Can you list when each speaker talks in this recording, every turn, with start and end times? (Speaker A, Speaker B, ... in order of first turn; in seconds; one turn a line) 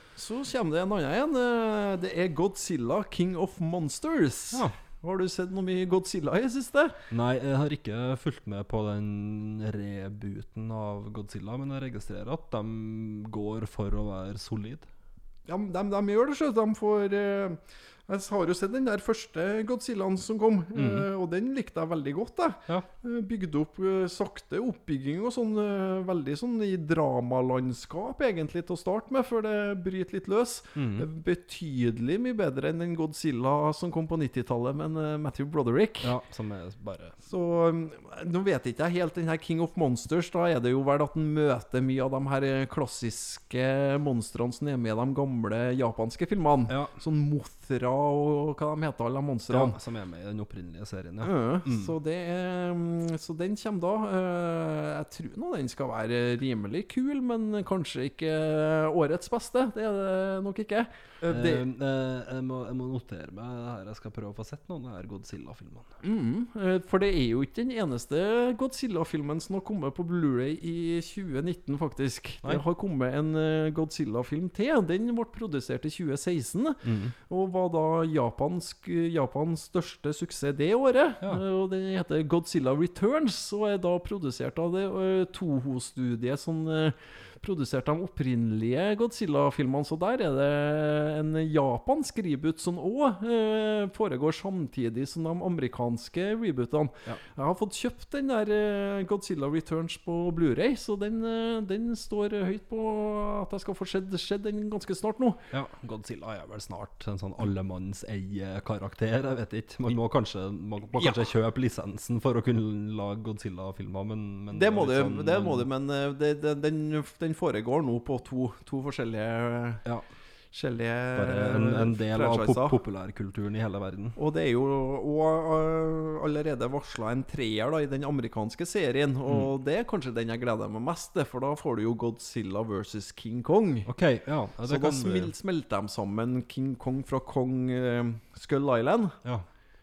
Speaker A: 0.2-7.0
Speaker B: 7.1-14.9
Speaker A: 15.5-36.1
Speaker B: 20.8-21.1
Speaker B: 30.8-31.1
Speaker B: 36.0-37.2
Speaker A: 37.2-49.8
Speaker B: 46.7-46.9
Speaker B: 49.5-51.9
Speaker A: 51.2-61.7
Speaker B: 61.3-65.9
Speaker A: 66.0-105.4
Speaker B: 76.8-77.1
Speaker B: 105.5-115.7
Speaker A: 111.0-111.2
Speaker A: 114.5-119.8
Speaker A: 120.5-122.8
Speaker B: 121.2-124.2
Speaker A: 124.2-133.9
Speaker B: 133.9-135.3
Speaker A: 134.6-139.2